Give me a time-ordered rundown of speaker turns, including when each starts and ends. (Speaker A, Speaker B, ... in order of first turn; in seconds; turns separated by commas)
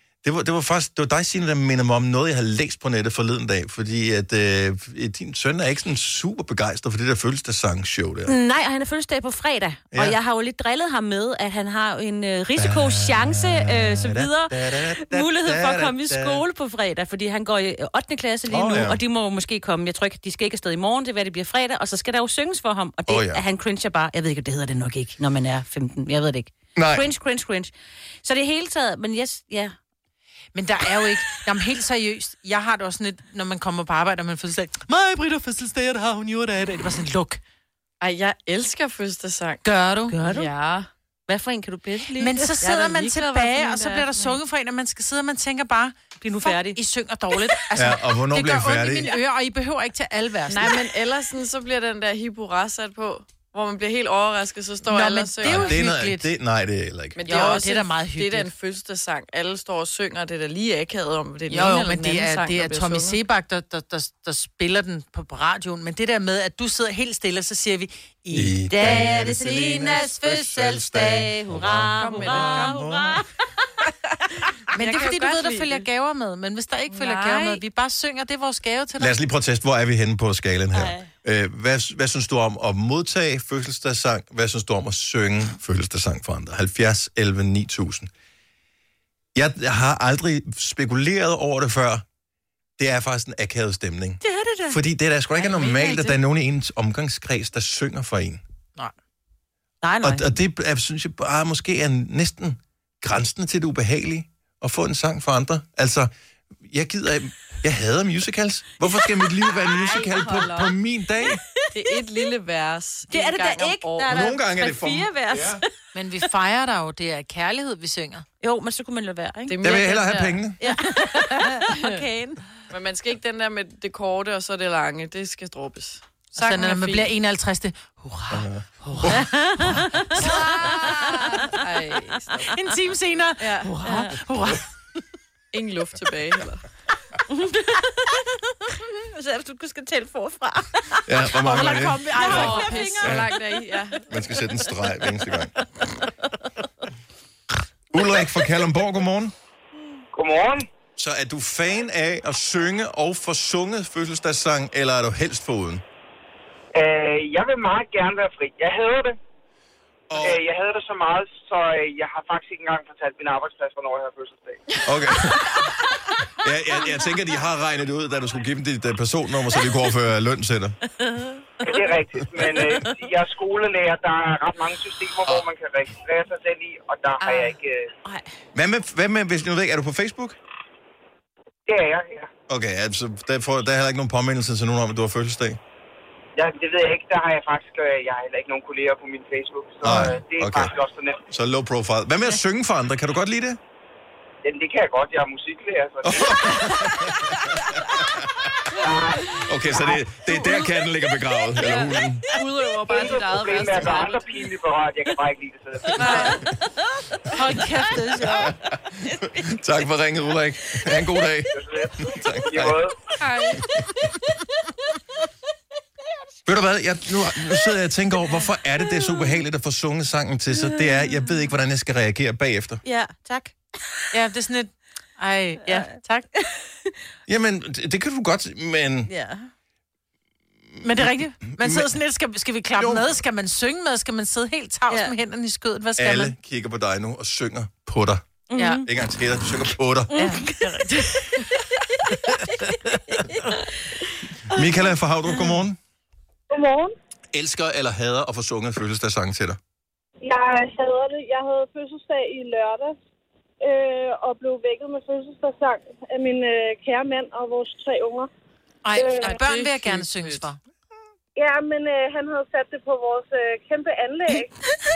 Speaker A: 0.2-8.4, Speaker B: 8.2-27.7, Speaker A: 9.9-10.2, Speaker A: 12.6-16.4, Speaker A: 18.4-19.0, Speaker A: 23.1-23.4, Speaker A: 26.8-27.1, Speaker B: 28.2-29.8, Speaker C: 30.5-37.4, Speaker D: 38.0-39.6, Speaker C: 39.6-40.1, Speaker B: 40.1-40.5, Speaker D: 40.2-40.9, Speaker B: 41.3-43.9, Speaker C: 42.2-50.8, Speaker D: 42.6-44.3, Speaker B: 46.2-46.8, Speaker A: 47.7-49.1, Speaker D: 50.5-55.8, Speaker C: 54.9-56.3, Speaker A: 55.4-57.5, Speaker D: 57.1-63.2, Speaker C: 57.3-58.5, Speaker C: 61.5-70.4, Speaker A: 68.3-73.2, Speaker B: 68.7-73.3, Speaker D: 72.0-72.9, Speaker C: 74.7-79.1, Speaker D: 74.7-75.8, Speaker D: 76.9-77.6, Speaker A: 79.0-88.1, Speaker B: 80.7-81.1, Speaker A: 89.3-92.0, Speaker A: 92.8-98.4, Speaker B: 94.2-94.8, Speaker B: 95.4-96.2, Speaker B: 99.8-100.3, Speaker A: 100.0-106.1, Speaker A: 106.6-111.4, Speaker B: 108.9-110.3, Speaker D: 110.1-110.7, Speaker D: 111.7-114.2, Speaker B: 113.1-115.6, Speaker A: 114.1-115.6, Speaker C: 115.9-118.2, Speaker B: 118.4-119.8, Speaker D: 119.5-120.4, Speaker A: 119.6-120.6, Speaker B: 120.6-122.4, Speaker D: 121.3-122.0, Speaker D: 122.7-127.1, Speaker C: 126.4-129.2, Speaker A: 128.3-128.7, Speaker B: 129.1-131.5, Speaker C: 130.1-131.4, Speaker D: 130.3-132.5, Speaker C: 132.5-134.6, Speaker D: 133.4-133.7, Speaker B: 133.8-134.1, Speaker D: 135.5-136.6, Speaker B: 137.3-137.9, Speaker B: 138.9-143.9, Speaker A: 141.1-143.2, Speaker C: 141.4-143.0, Speaker D: 142.2-144.0, Speaker A: 144.1-145.5, Speaker A: 147.9-149.3, Speaker E: 150.1-150.7, Speaker A: 150.9-155.8, Speaker E: 156.7-159.2, Speaker A: 160.1-160.4, Speaker E: 160.2-164.8, Speaker A: 164.8-165.5, Speaker A: 166.4-170.8, Speaker B: 171.2-171.7, Speaker E: 171.6-177.9, Speaker B: 177.2-177.5, Speaker A: 178.5-180.3, Speaker E: 181.7-182.3, Speaker A: 182.5-185.6, Speaker E: 186.3-191.2, Speaker A: 189.8-190.7, Speaker A: 191.3-193.6, Speaker E: 194.4-196.6, Speaker A: 196.0-197.3, Speaker E: 198.8-200.0, Speaker A: 199.4-202.2, Speaker D: 201.6-204.5, Speaker E: 202.9-206.3, Speaker D: 205.9-206.4, Speaker B: 206.0-206.3, Speaker C: 207.4-208.1, Speaker B: 207.4-208.5, Speaker A: 208.2-208.5, Speaker B: 209.1-209.4, Speaker A: 209.4-212.8, Speaker E: 211.5-212.9, Speaker D: 213.2-213.6, Speaker A: 216.4-222.8, Speaker B: 218.4-219.3, Speaker B: 220.6-221.3, Speaker B: 222.8-223.6, Speaker C: 224.1-226.3, Speaker B: 225.7-225.9, Speaker A: 227.3-229.1, Speaker B: 229.1-229.5, Speaker A: 230.7-231.9, Speaker C: 230.8-236.3, Speaker A: 232.8-233.1, Speaker B: 234.9-235.1, Speaker A: 236.0-240.1, Speaker B: 238.5-238.9, Speaker C: 238.6-238.8, Speaker B: 240.1-241.2, Speaker C: 240.2-241.0, Speaker B: 242.6-243.5, Speaker A: 244.5-245.8, Speaker F: 246.5-246.9, Speaker A: 247.3-249.6, Speaker F: 250.2-252.9, Speaker F: 253.6-258.3, Speaker C: 258.8-260.6, Speaker F: 258.9-259.3, Speaker D: 259.2-260.5, Speaker F: 261.4-264.5